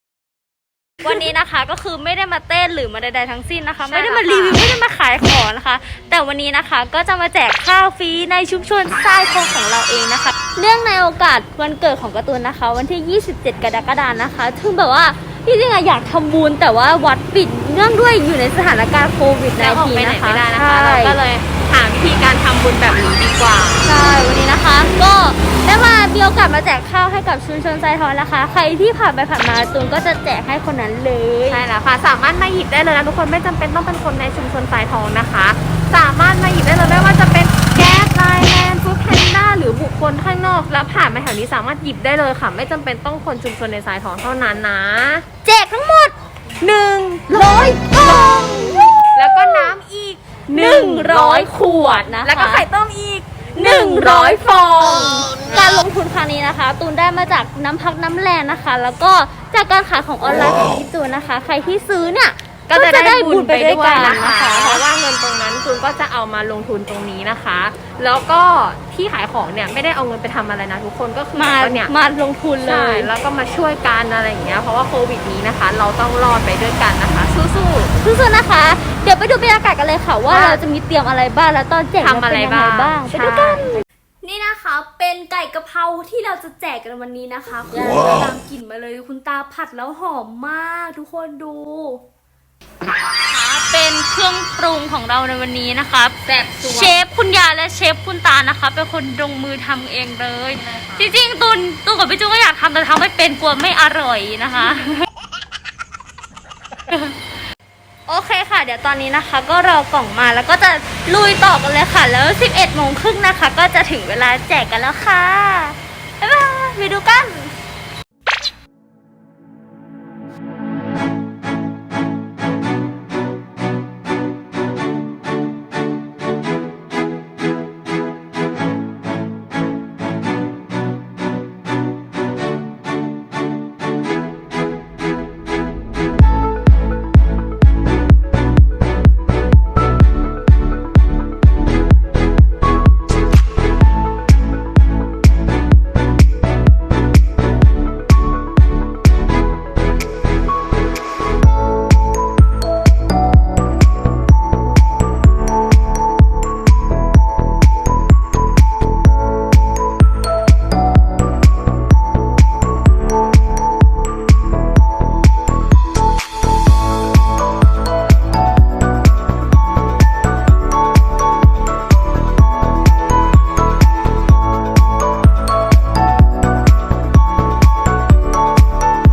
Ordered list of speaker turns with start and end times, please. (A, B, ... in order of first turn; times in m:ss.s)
0:01.0-0:21.2 A
0:03.9-0:04.6 B
0:19.6-0:23.9 B
0:23.8-0:31.6 A
0:31.5-0:45.2 B
0:45.4-0:46.2 A
0:46.8-0:48.9 A
0:49.1-0:55.4 B
0:50.5-0:52.7 A
0:53.5-1:04.8 A
1:02.7-1:11.9 B
1:11.3-1:13.1 A
1:12.6-1:17.9 B
1:18.0-1:32.0 A
1:20.3-1:20.6 B
1:22.0-1:23.7 B
1:33.3-1:45.0 A
1:36.2-1:36.9 B
1:40.6-1:41.0 B
1:48.1-1:57.5 A